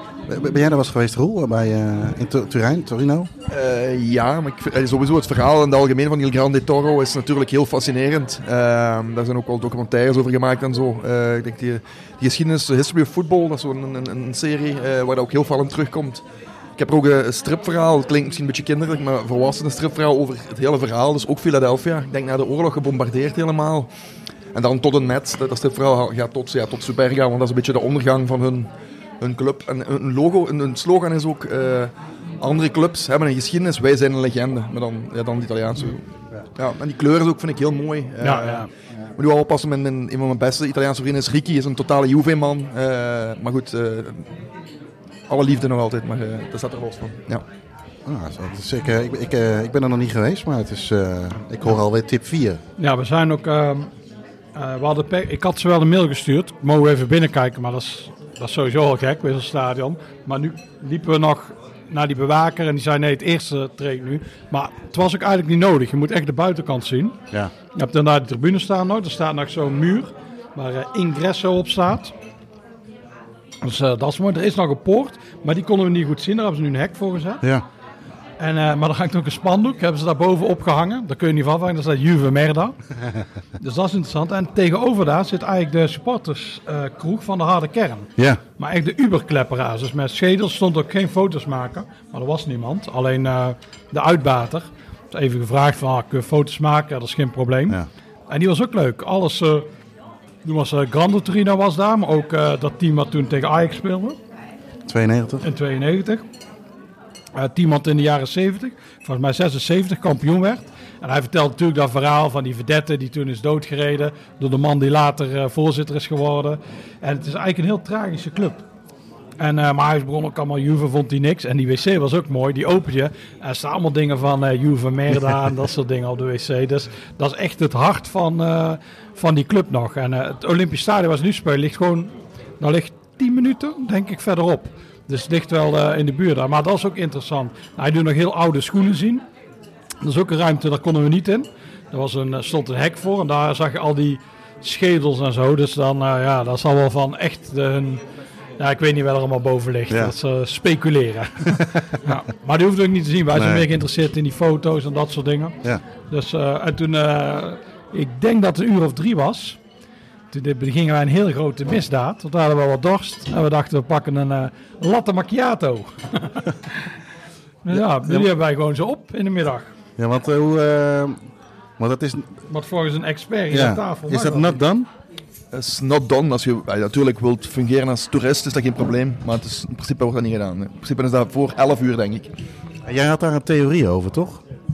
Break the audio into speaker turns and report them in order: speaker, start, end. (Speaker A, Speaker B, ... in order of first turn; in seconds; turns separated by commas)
Speaker A: 0.3-3.3, Speaker B: 3.5-16.2, Speaker B: 16.8-23.9, Speaker B: 24.5-28.7, Speaker B: 29.2-44.3, Speaker C: 38.2-38.7, Speaker B: 45.3-47.4, Speaker A: 48.0-52.6, Speaker C: 52.8-53.9, Speaker C: 54.5-67.2, Speaker C: 67.7-72.1, Speaker C: 73.6-77.4, Speaker C: 78.4-82.8, Speaker C: 83.6-99.7, Speaker C: 100.4-104.2, Speaker A: 104.9-105.4, Speaker C: 105.4-106.2, Speaker C: 107.3-118.6, Speaker C: 119.4-139.2, Speaker C: 140.0-148.0, Speaker C: 148.6-155.6, Speaker A: 153.3-153.7, Speaker C: 156.1-159.6, Speaker C: 160.3-166.9, Speaker C: 167.6-169.7, Speaker A: 167.7-168.3, Speaker A: 170.0-171.2, Speaker A: 171.8-172.3, Speaker C: 172.5-174.6, Speaker A: 173.5-174.9, Speaker B: 175.5-182.3, Speaker A: 182.8-184.4